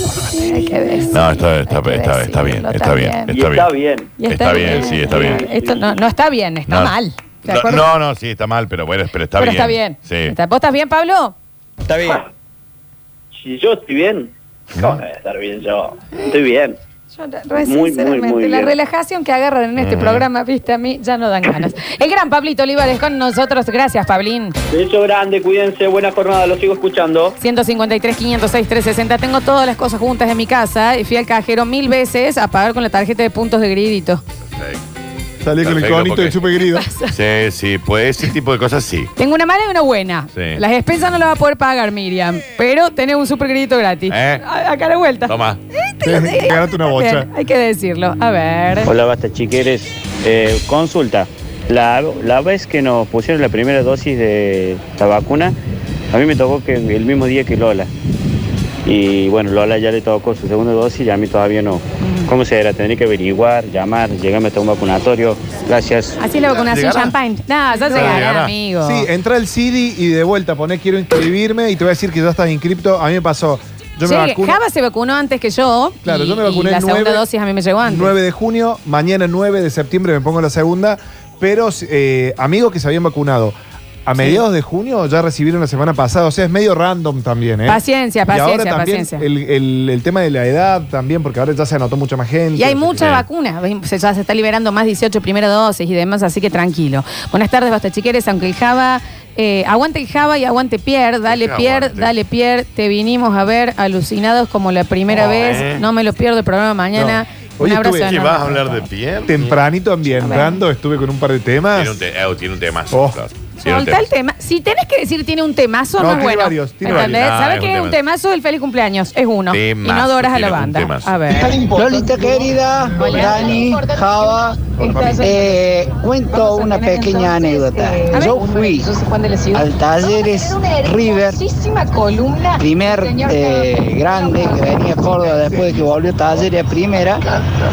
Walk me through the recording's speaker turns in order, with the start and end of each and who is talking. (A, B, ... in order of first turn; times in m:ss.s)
0:00.3-0:03.3 A
0:01.1-0:03.7 B
0:03.3-0:05.9 C
0:04.2-0:07.9 A
0:04.2-0:05.4 B
0:06.7-0:10.3 B
0:09.4-0:11.3 A
0:13.4-0:16.8 C
0:17.1-0:24.6 A
0:17.6-0:18.7 C
0:19.8-0:20.3 B
0:24.7-0:27.4 C
0:27.4-0:34.2 A
0:34.4-0:34.8 B
0:35.4-0:36.9 D
0:35.6-0:36.4 B
0:36.8-0:37.1 A
0:37.1-0:39.1 B
0:39.2-0:48.9 A
0:40.3-0:40.6 B
0:44.1-0:44.4 B
0:45.3-0:45.6 B
0:46.0-0:47.3 D
0:48.8-0:55.6 E
0:56.1-0:57.9 E
0:58.8-1:06.2 E
1:02.0-1:02.3 A
1:06.2-1:09.1 A
1:06.4-1:07.1 B
1:07.8-1:08.5 B
1:08.8-1:14.6 D
1:14.0-1:18.1 A
1:16.0-1:17.2 D
1:17.8-1:33.2 D
1:24.2-1:24.4 A
1:27.7-1:29.2 A
1:32.6-1:48.8 A
1:41.2-1:42.1 B
1:45.1-1:45.9 B
1:46.9-1:48.3 D
1:48.0-1:49.6 B
1:49.2-1:52.0 D
1:50.2-1:50.6 A
1:51.7-1:54.1 B
1:52.9-1:53.2 D
1:53.6-2:01.6 A
1:56.0-1:57.2 D
1:56.8-1:58.0 B
1:59.5-2:01.2 B
2:01.5-2:08.9 F
2:03.1-2:03.6 A
2:04.8-2:05.2 D
2:06.9-2:07.3 A
2:08.1-2:09.6 A
2:09.5-2:11.4 F
2:11.4-2:12.6 A
2:12.6-2:17.2 F